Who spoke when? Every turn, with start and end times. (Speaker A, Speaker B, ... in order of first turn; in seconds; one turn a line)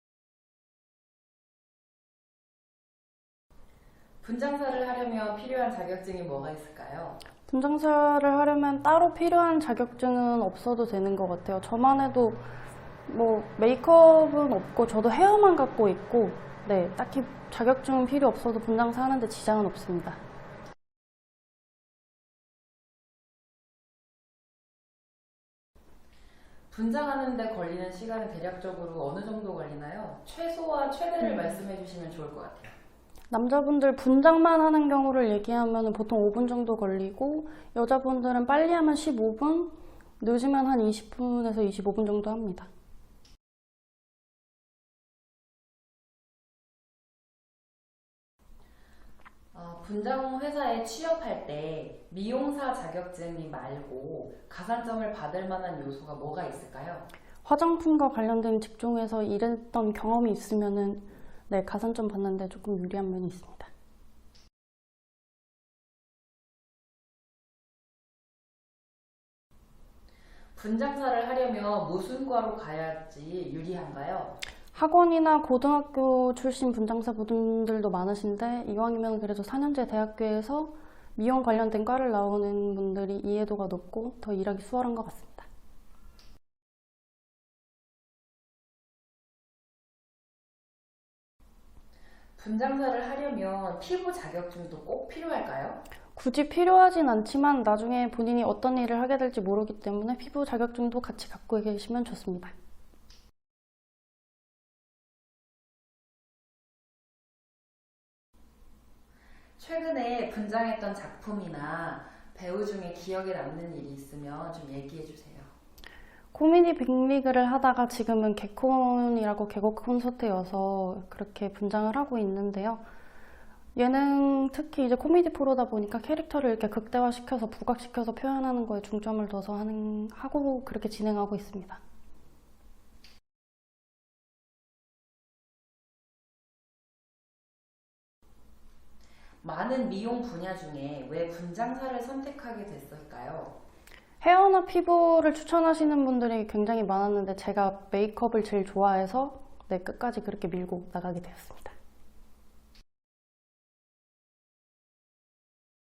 Speaker A: 4.2-7.2
Speaker B: 7.5-12.4
Speaker B: 13.1-20.2
Speaker A: 26.7-32.7
Speaker B: 33.3-42.7
Speaker A: 49.5-57.1
Speaker B: 57.4-63.7
Speaker A: 70.5-74.4
Speaker B: 74.7-85.5
Speaker A: 92.4-95.8
Speaker B: 96.2-102.5
Speaker A: 109.6-115.5
Speaker B: 116.3-122.8
Speaker B: 123.8-131.8
Speaker A: 139.4-143.5
Speaker B: 144.2-151.7